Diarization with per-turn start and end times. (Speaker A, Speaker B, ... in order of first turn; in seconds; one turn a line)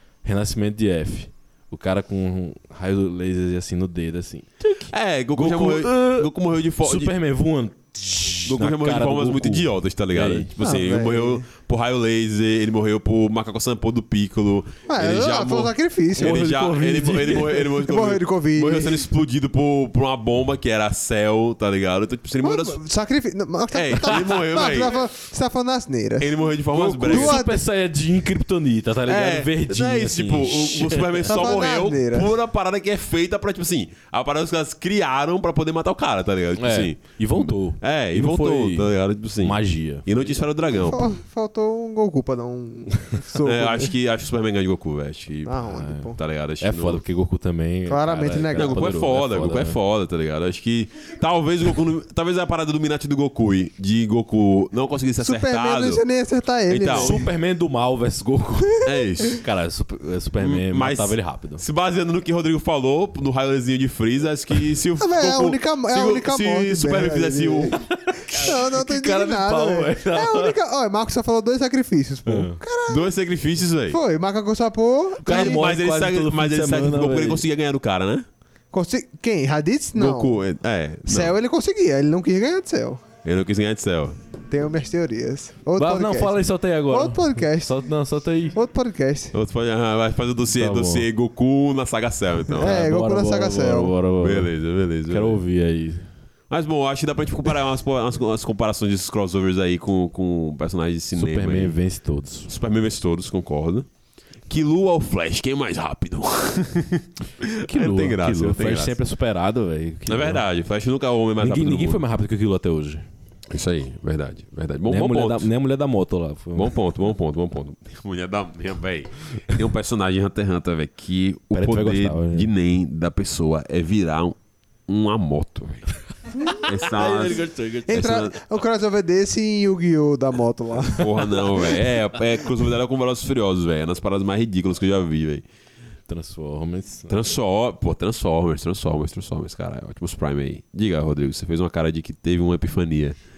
Speaker A: 0.2-6.3
Speaker B: 4.9-7.1
Speaker A: 6.8-10.5
Speaker B: 8.5-22.8
Speaker C: 10.6-11.5
Speaker C: 14.9-16.4
Speaker A: 16.2-17.7
Speaker C: 17.8-19.1
Speaker C: 22.4-26.4
Speaker B: 23.7-25.0
Speaker B: 26.2-27.4
Speaker A: 26.8-31.4
Speaker C: 27.0-27.6
Speaker B: 29.1-41.1
Speaker C: 31.3-32.3
Speaker A: 36.6-40.1
Speaker C: 40.8-43.9
Speaker B: 43.5-47.0
Speaker C: 45.5-46.2
Speaker A: 45.7-46.0
Speaker A: 46.6-49.8
Speaker C: 47.9-48.9
Speaker B: 48.6-56.0
Speaker C: 55.2-57.3
Speaker B: 56.7-57.2
Speaker A: 56.9-61.6
Speaker B: 58.8-59.4
Speaker B: 60.4-67.8
Speaker C: 65.0-73.1
Speaker A: 67.8-70.5
Speaker A: 72.3-72.6
Speaker B: 72.9-74.0
Speaker C: 73.9-75.6
Speaker A: 75.2-77.4
Speaker B: 75.2-78.3
Speaker C: 78.7-80.4
Speaker B: 80.0-81.3
Speaker C: 81.1-83.0
Speaker B: 83.2-84.2
Speaker C: 84.5-87.8
Speaker A: 85.8-88.6
Speaker C: 88.5-89.3
Speaker B: 89.3-92.8
Speaker A: 90.5-91.1
Speaker C: 92.6-94.0
Speaker A: 92.6-94.5
Speaker B: 94.2-95.4
Speaker A: 95.1-96.1
Speaker B: 96.5-101.8
Speaker A: 101.2-102.5
Speaker B: 102.5-103.9
Speaker B: 104.5-109.0
Speaker A: 107.7-110.4
Speaker B: 110.1-112.0
Speaker A: 111.4-113.0
Speaker B: 113.5-115.5
Speaker A: 114.9-116.7
Speaker B: 116.5-124.4
Speaker A: 121.5-122.5
Speaker B: 124.9-125.8
Speaker B: 126.7-128.3
Speaker A: 126.8-128.0
Speaker C: 127.9-131.6
Speaker B: 131.0-135.4
Speaker A: 136.1-137.1
Speaker B: 137.1-143.2